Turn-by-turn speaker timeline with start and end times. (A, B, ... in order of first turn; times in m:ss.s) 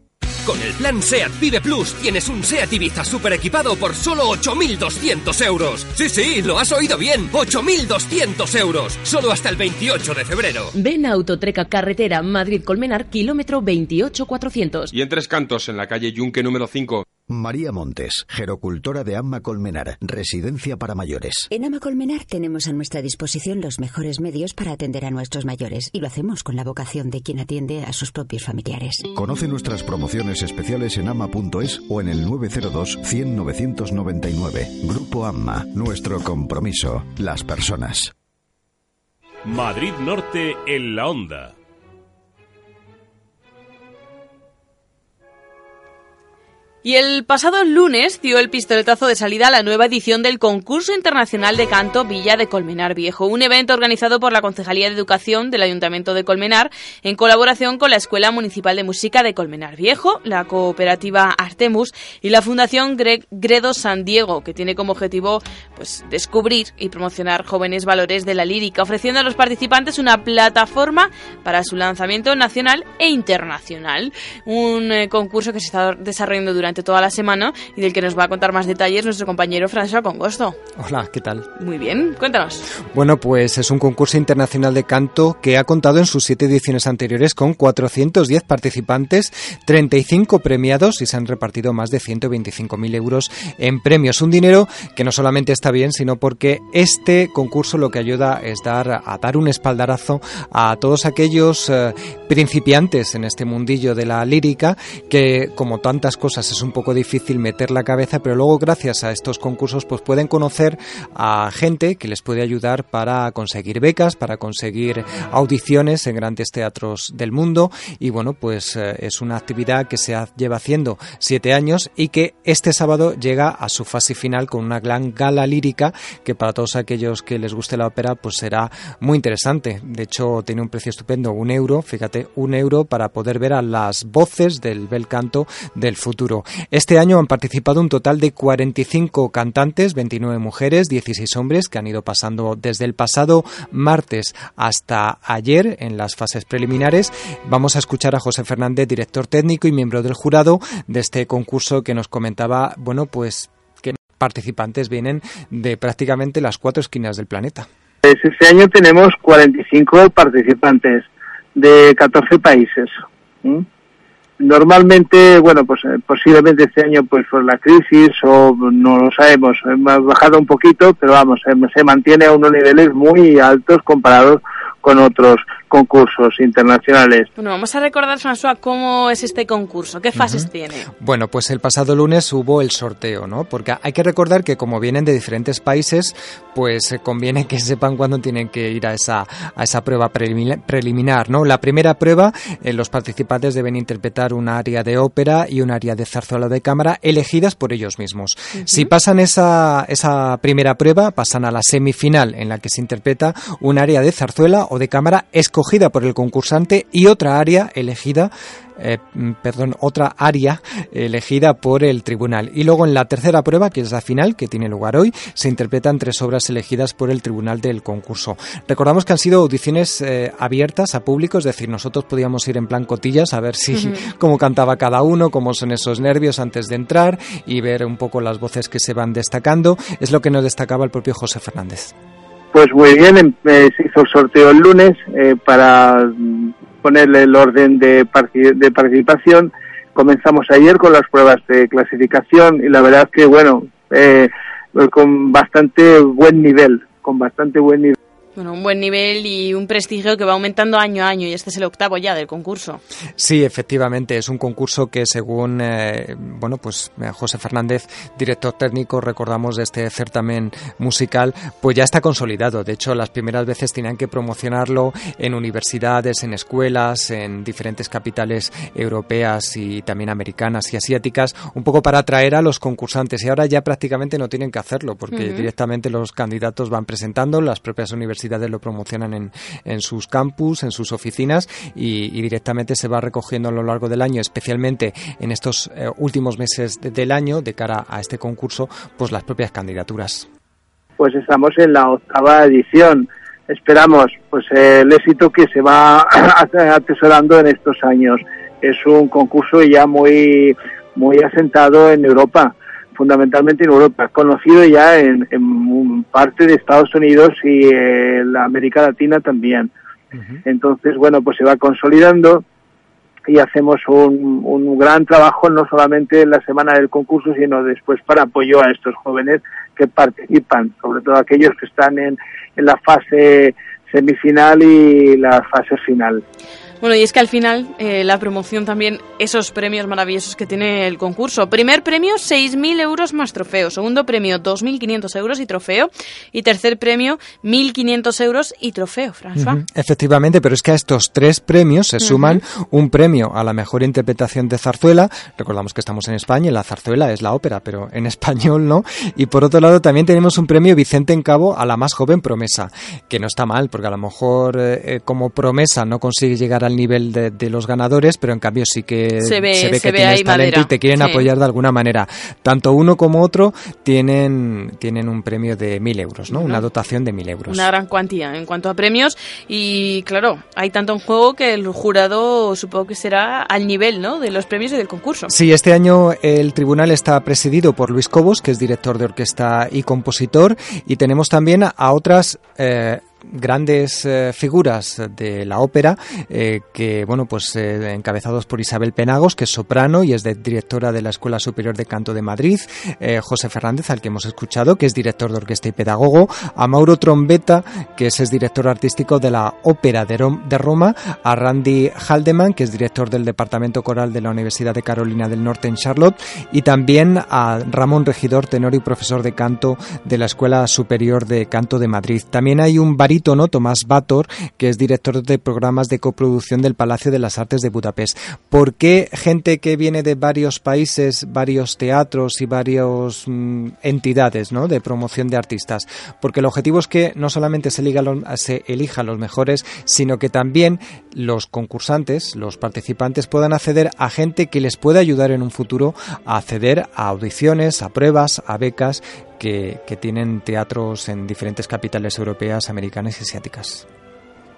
0:00.4-0:10.7 A
0:10.7-0:14.9 B
0:14.9-0:17.0 C
0:17.3-0:21.4 D
0:21.5-0:29.0 E
0:29.1-0:38.1 D
0:39.4-0:41.5 F
0:46.8-1:20.6 G
1:20.8-1:21.5 H
1:21.6-1:22.6 G
1:22.9-2:37.7 H
2:38.0-2:43.6 I
2:44.4-2:57.3 I
2:57.4-3:00.9 G
3:00.1-3:00.5 H
3:01.0-3:51.9 H
3:18.5-3:18.9 G
3:43.7-3:44.0 G
3:52.5-4:07.9 I
4:08.4-4:12.8 G
4:13.2-4:50.3 H
4:35.1-4:35.5 G
4:51.0-5:09.7 I
5:10.4-5:12.4 I
5:13.3-5:26.2 I
5:26.8-5:39.6 G
5:39.4-6:07.7 H
5:42.0-5:42.4 G
5:59.2-6:01.3 G
6:06.3-6:06.6 G
6:07.5-6:15.3 G
6:15.3-7:23.8 H